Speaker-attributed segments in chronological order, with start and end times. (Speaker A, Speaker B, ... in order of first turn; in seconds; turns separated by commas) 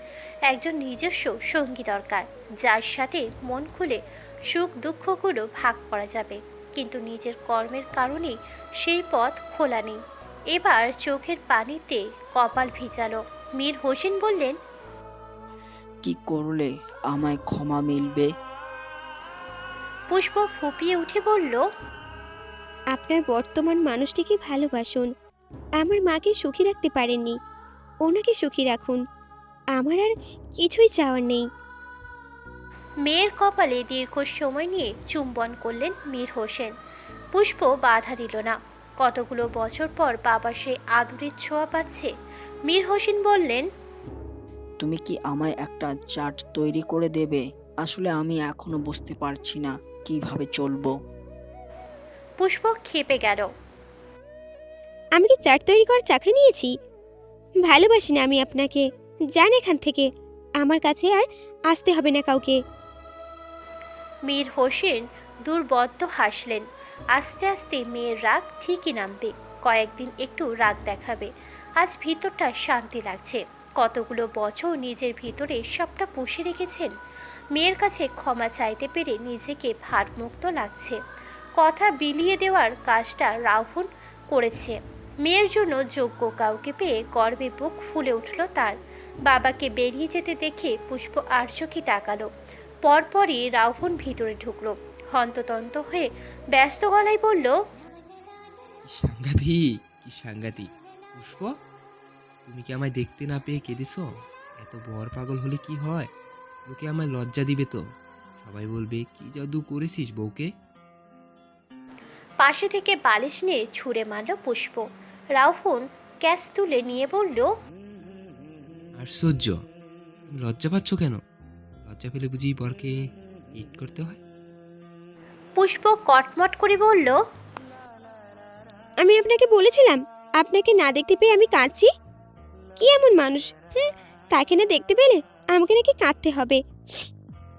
Speaker A: 0.5-4.0, Speaker A: 4.5-10.0, Speaker A: 10.5-14.5, Speaker B: 16.0-18.3, Speaker A: 20.1-21.6, Speaker C: 22.9-25.1, Speaker C: 25.8-27.4, Speaker C: 28.1-29.0, Speaker C: 29.8-31.4, Speaker A: 33.0-36.7, Speaker A: 37.3-42.1, Speaker A: 42.7-43.6, Speaker B: 44.8-50.9, Speaker A: 52.4-53.5, Speaker C: 55.2-56.7, Speaker C: 57.6-58.8, Speaker C: 59.4-60.1, Speaker C: 60.6-62.6, Speaker A: 64.3-66.6, Speaker A: 67.2-76.9, Speaker A: 77.5-81.0, Speaker A: 81.6-92.3, Speaker A: 92.8-97.6, Speaker D: 98.8-101.5, Speaker D: 102.4-104.1, Speaker D: 104.6-106.1, Speaker D: 106.7-107.8, Speaker D: 108.4-110.5, Speaker A: 112.4-114.8, Speaker A: 115.4-117.5, Speaker D: 119.0-119.6, Speaker D: 120.3-121.2, Speaker D: 121.8-122.9, Speaker D: 123.5-124.2, Speaker A: 125.6-127.2, Speaker C: 129.0-131.9, Speaker C: 132.8-137.1